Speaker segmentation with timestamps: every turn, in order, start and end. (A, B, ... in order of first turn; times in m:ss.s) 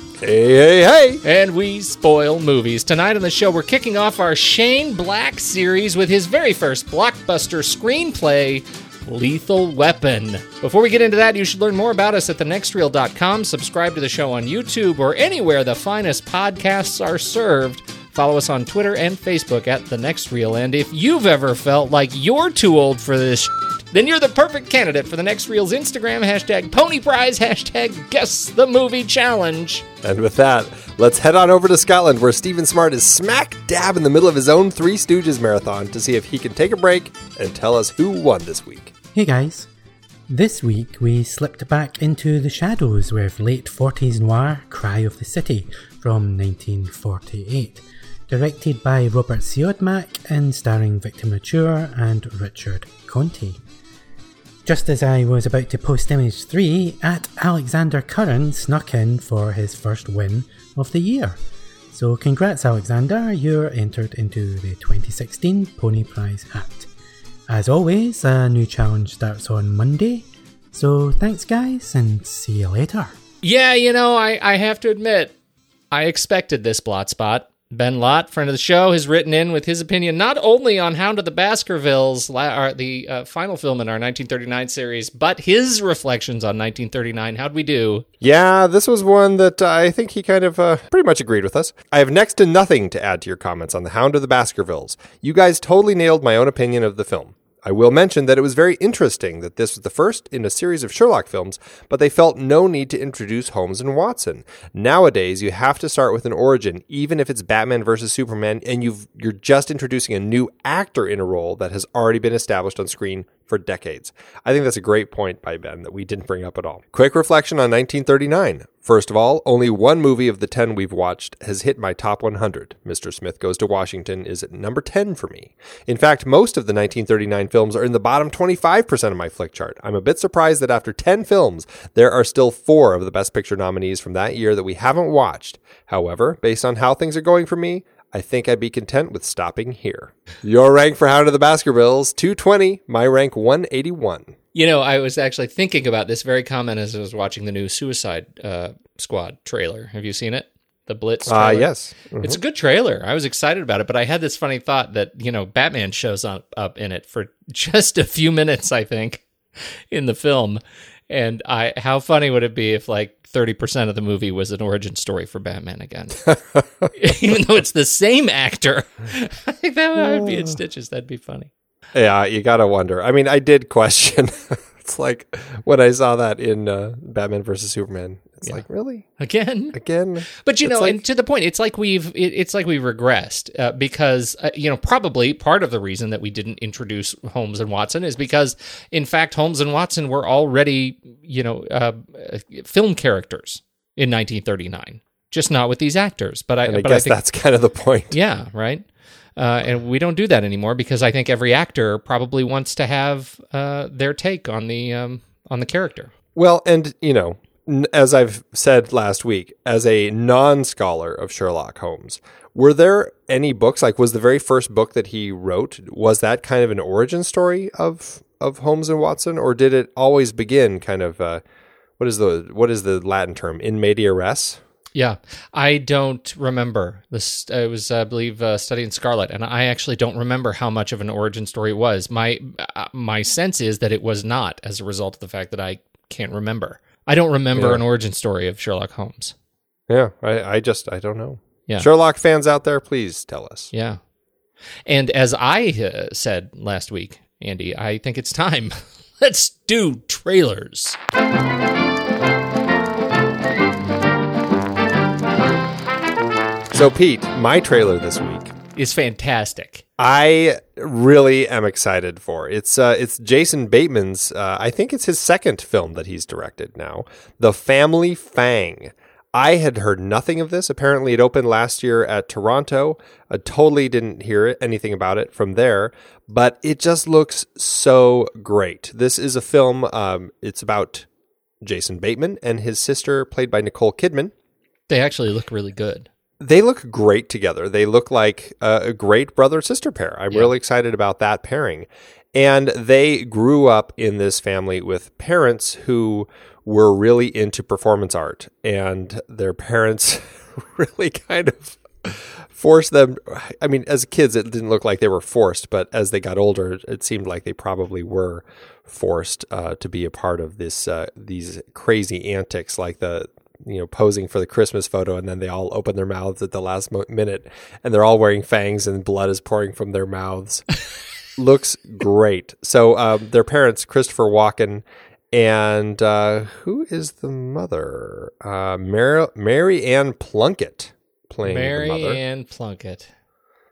0:00.2-0:01.2 A
0:01.2-0:29.8 B
0:30.0-0:38.9 A
0:39.1-0:39.7 C
0:40.3-0:53.6 C
0:54.6-1:01.4 C
1:01.9-1:06.9 C
1:07.5-1:13.2 C
1:13.4-1:15.4 B
1:15.9-1:28.0 B
1:28.2-2:24.3 A
2:24.5-2:46.3 B
2:31.2-2:32.4 A
2:46.3-2:46.9 A
2:46.9-2:51.5 B
2:50.0-2:50.5 A
2:51.9-2:59.1 A
2:59.2-2:59.8 B
2:59.7-3:01.0 A
3:00.3-3:17.2 B
3:16.6-3:18.2 A
3:18.1-3:18.8 B
3:19.4-3:26.1 B
3:26.3-3:41.4 A
3:42.0-3:44.6 A
3:44.9-3:59.3 B
3:57.5-3:57.8 A
3:59.9-4:03.7 A
4:03.7-4:04.0 B
4:04.9-4:11.0 B
4:16.7-4:18.5 A
4:18.7-4:19.8 B
4:20.0-4:41.1 A
4:41.6-4:44.3 A
4:44.9-4:46.1 B
4:46.4-5:20.6 A
5:21.4-5:32.2 A
5:31.4-5:33.1 B